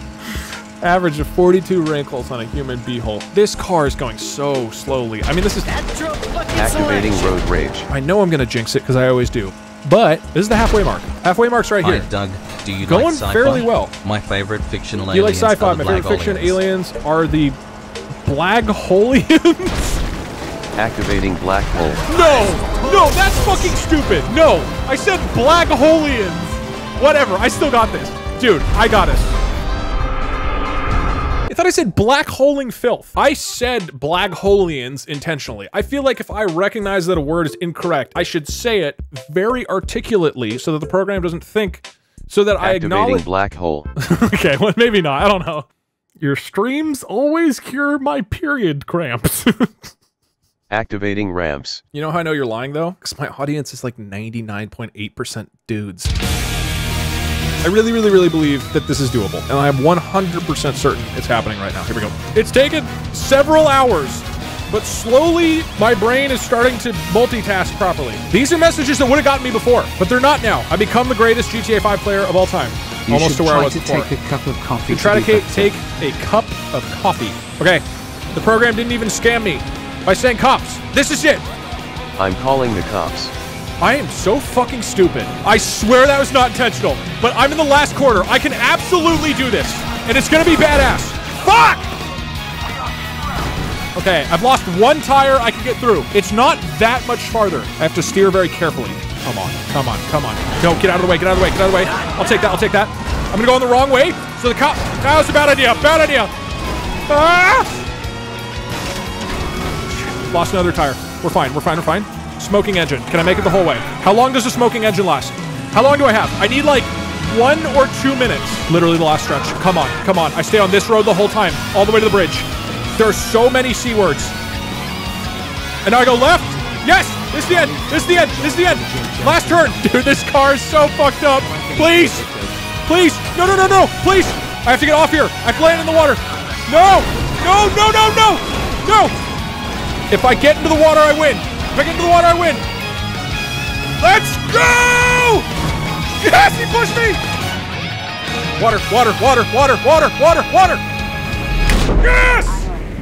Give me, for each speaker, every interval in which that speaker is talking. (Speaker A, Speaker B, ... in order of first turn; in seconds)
Speaker A: 0.8-5.7, 7.9-12.1, 12.8-13.9, 15.1-17.6, 18.2-20.0, 22.1-29.4, 31.5-43.3, 44.0-45.7, 46.2-49.9, 51.9-56.1, 57.6-74.1, 74.9-81.5, 83.8-91.9, 94.0-106.3, 107.1-107.8, 110.0-124.4, 125.8-132.2, 132.8-139.2, 140.1-142.6, 144.0-145.5, 146.2-147.2, 148.6-150.8, 152.0-152.7
Speaker B: 6.5-7.9, 20.8-22.1, 42.6-43.9, 50.7-51.8, 82.2-83.3
Speaker C: 11.8-16.6
Speaker D: 73.1-75.8, 127.4-130.2, 131.3-132.6